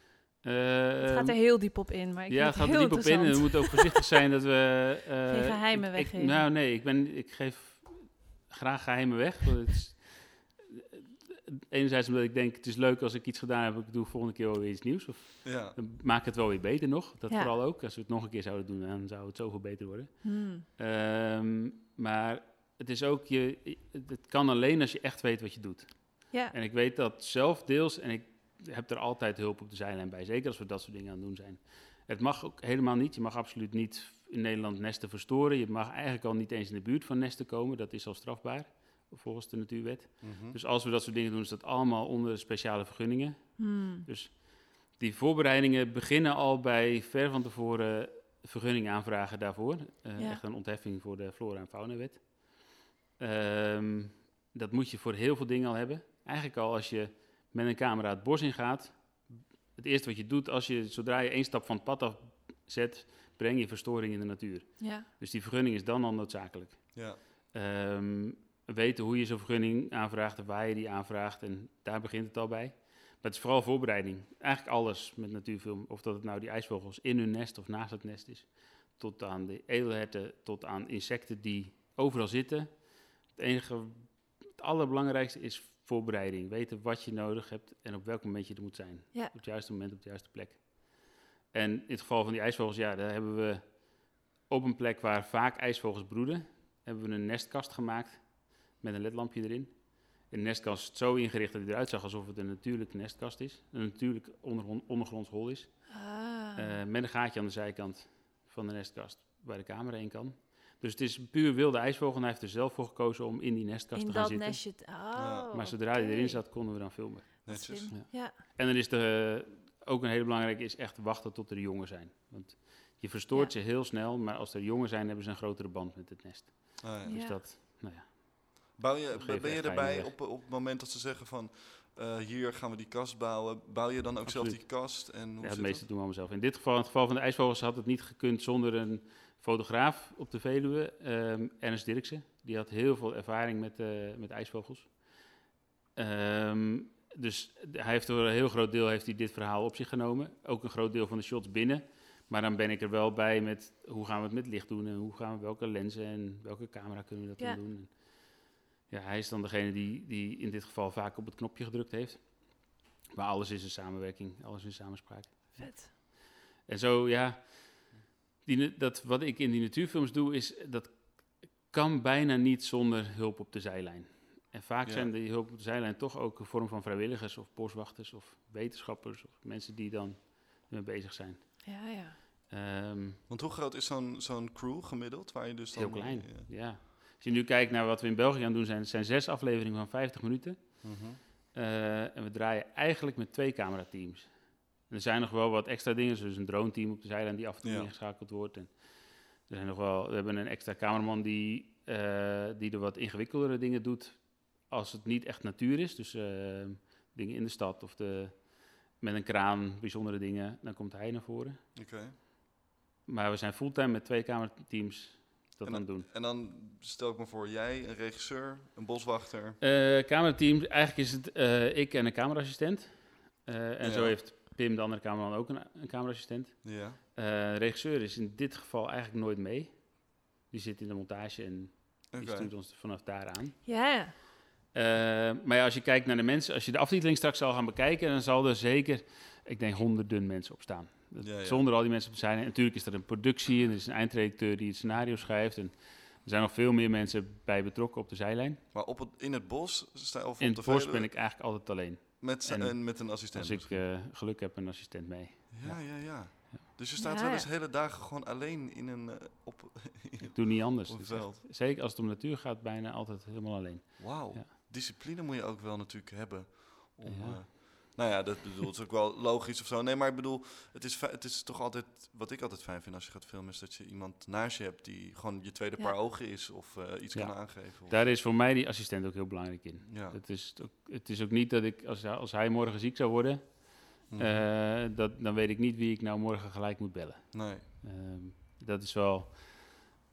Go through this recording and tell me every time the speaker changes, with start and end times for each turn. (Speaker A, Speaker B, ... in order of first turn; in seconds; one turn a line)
Speaker A: 0.4-52.6
Speaker B: 1.0-4.2
Speaker B: 5.3-6.5
Speaker C: 15.4-15.8
Speaker B: 20.2-20.6
Speaker C: 40.2-40.6
Speaker B: 43.6-44.1
Speaker A: 53.2-105.9
Speaker B: 64.8-65.1
Speaker C: 66.9-67.2
Speaker B: 105.9-106.8
Speaker A: 106.6-114.6
Speaker B: 114.0-116.4
Speaker C: 115.2-115.5
Speaker A: 115.5-130.1
Speaker B: 117.4-118.4
Speaker C: 117.5-117.9
Speaker C: 126.8-127.2
Speaker B: 127.1-127.4
Speaker C: 128.8-135.9
Speaker A: 134.2-145.1
Speaker A: 145.9-181.7
Speaker B: 165.6-165.9
Speaker C: 174.8-175.1
Speaker B: 181.7-182.2
Speaker A: 182.5-183.2
Speaker C: 183.3-186.5
Speaker A: 185.7-191.0
Speaker C: 190.8-191.2
Speaker A: 191.5-194.3
Speaker A: 194.9-211.6
Speaker C: 197.6-197.9
Speaker C: 211.8-212.1
Speaker A: 213.1-216.1
Speaker C: 215.6-219.6
Speaker A: 219.6-233.6
Speaker C: 223.8-224.2
Speaker C: 226.6-227.0
Speaker C: 232.1-232.5
Speaker B: 233.7-234.1
Speaker A: 234.7-248.6
Speaker C: 241.2-241.6
Speaker C: 248.7-251.1
Speaker A: 250.4-256.6
Speaker C: 252.2-253.8
Speaker C: 255.5-261.4
Speaker B: 257.0-257.5
Speaker A: 260.2-264.5
Speaker C: 264.0-278.1
Speaker A: 267.1-268.0
Speaker A: 277.1-289.8
Speaker C: 279.9-280.2
Speaker C: 284.1-284.5
Speaker C: 287.3-287.6